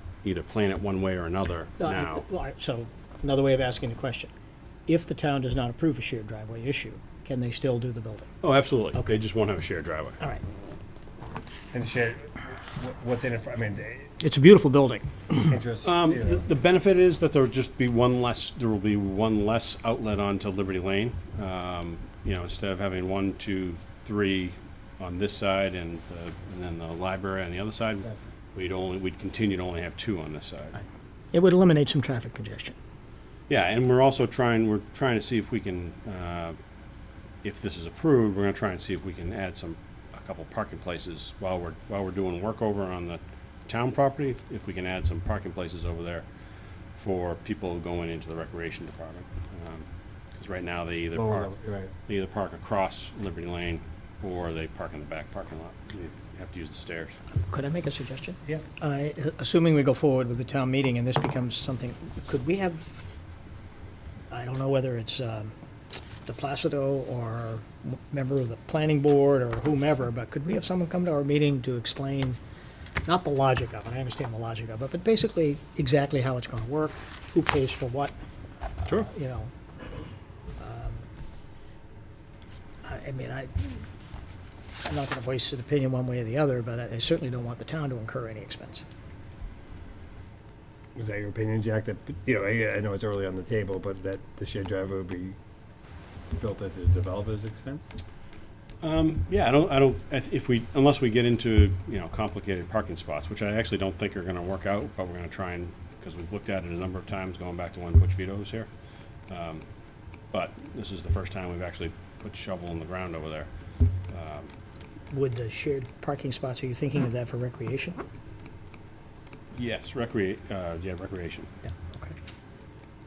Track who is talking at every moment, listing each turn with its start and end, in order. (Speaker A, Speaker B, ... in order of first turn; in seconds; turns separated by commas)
Speaker A: 0.2-2.2, Speaker B: 1.8-4.3, Speaker B: 4.9-8.3, Speaker A: 8.4-10.2, Speaker C: 11.7-14.1, Speaker B: 14.2-15.6, Speaker C: 15.5-16.4, Speaker A: 15.8-30.8, Speaker B: 31.3-32.8, Speaker A: 33.5-36.6, Speaker A: 37.4-46.2, Speaker A: 46.9-51.5, Speaker C: 51.1-51.9, Speaker A: 52.0-57.2, Speaker B: 57.3-62.8, Speaker B: 64.3-65.5, Speaker B: 66.2-72.4, Speaker B: 73.0-78.1, Speaker A: 78.8-79.1, Speaker B: 78.9-79.5, Speaker B: 80.6-81.0, Speaker B: 82.8-83.8, Speaker B: 84.8-88.8, Speaker C: 90.9-95.4, Speaker C: 96.3-98.0, Speaker A: 98.8-108.7, Speaker A: 109.3-109.6, Speaker A: 110.3-113.5, Speaker A: 114.1-114.5, Speaker B: 115.1-118.0, Speaker A: 119.5-121.5, Speaker B: 121.7-122.1